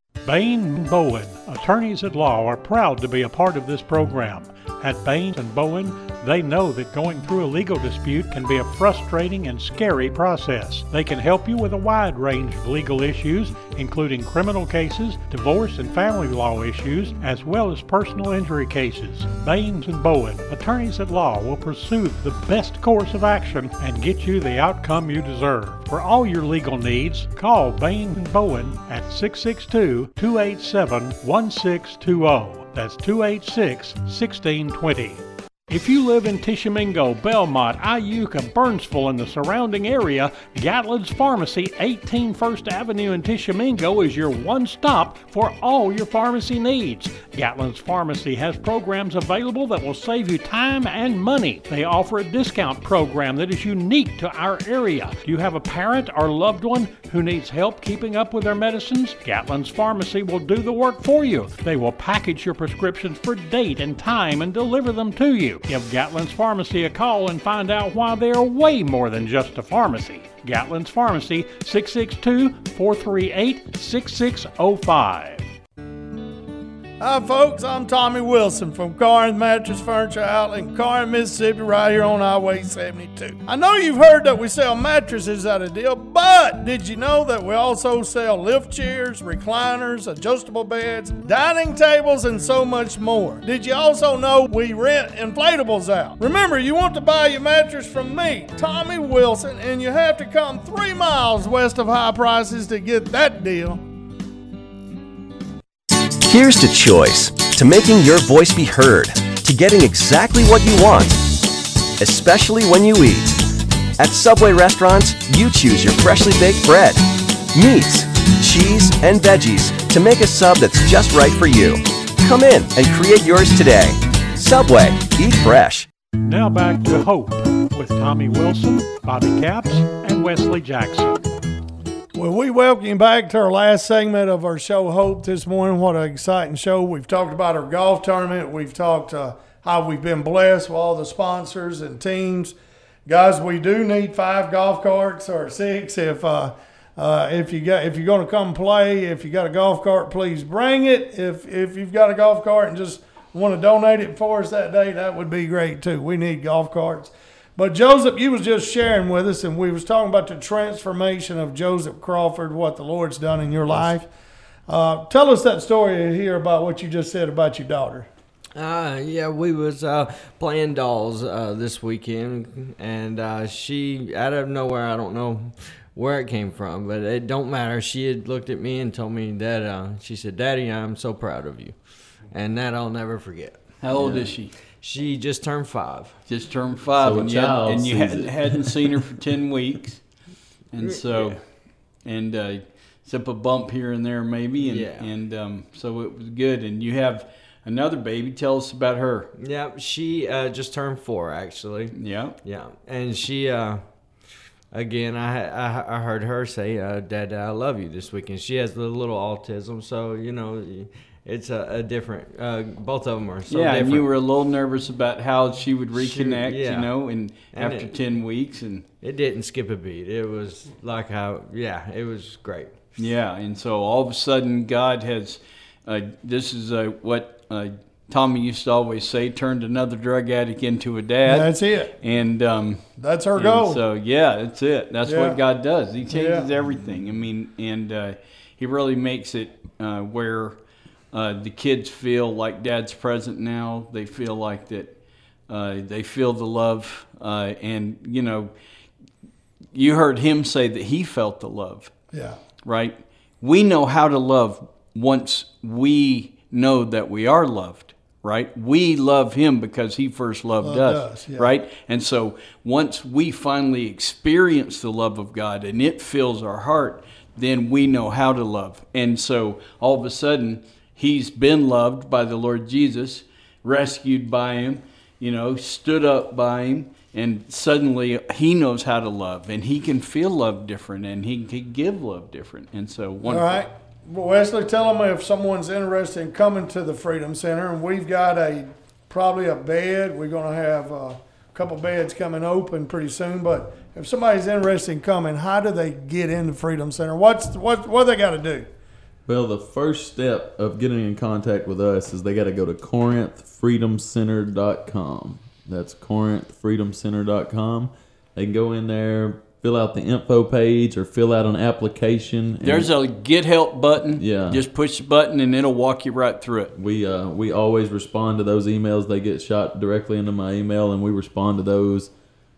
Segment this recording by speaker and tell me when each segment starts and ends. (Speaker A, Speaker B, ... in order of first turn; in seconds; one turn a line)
Speaker A: 0.2-75.5
Speaker B: 77.0-103.8
Speaker C: 106.3-111.2
Speaker C: 112.0-125.9
Speaker A: 126.2-131.2
Speaker B: 132.1-142.5
Speaker B: 143.1-164.1
Speaker B: 164.7-168.1
Speaker D: 168.6-181.8
Speaker D: 182.3-183.6
Speaker E: 183.8-184.6
Speaker F: 183.9-184.3
Speaker D: 184.8-186.2
Speaker E: 186.3-190.0
Speaker F: 187.0-188.7
Speaker E: 190.7-191.4
Speaker D: 190.8-191.4
Speaker E: 192.1-199.3
Speaker D: 194.6-195.1
Speaker D: 199.4-203.8
Speaker E: 201.9-202.4
Speaker D: 204.7-214.1
Speaker E: 213.5-218.8
Speaker D: 215.9-216.9
Speaker D: 217.5-217.9
Speaker D: 219.0-222.8
Speaker E: 223.0-240.6
Speaker B: 231.3-231.9
Speaker B: 233.0-233.8
Speaker B: 235.1-235.4
Speaker B: 236.1-236.5
Speaker E: 241.1-244.9
Speaker E: 245.5-248.5
Speaker E: 249.7-251.9
Speaker B: 252.1-252.4
Speaker E: 252.6-283.6
Speaker B: 260.6-261.5
Speaker B: 283.2-298.7
Speaker F: 299.3-312.9
Speaker E: 312.6-316.7
Speaker F: 314.2-314.6
Speaker F: 316.8-322.1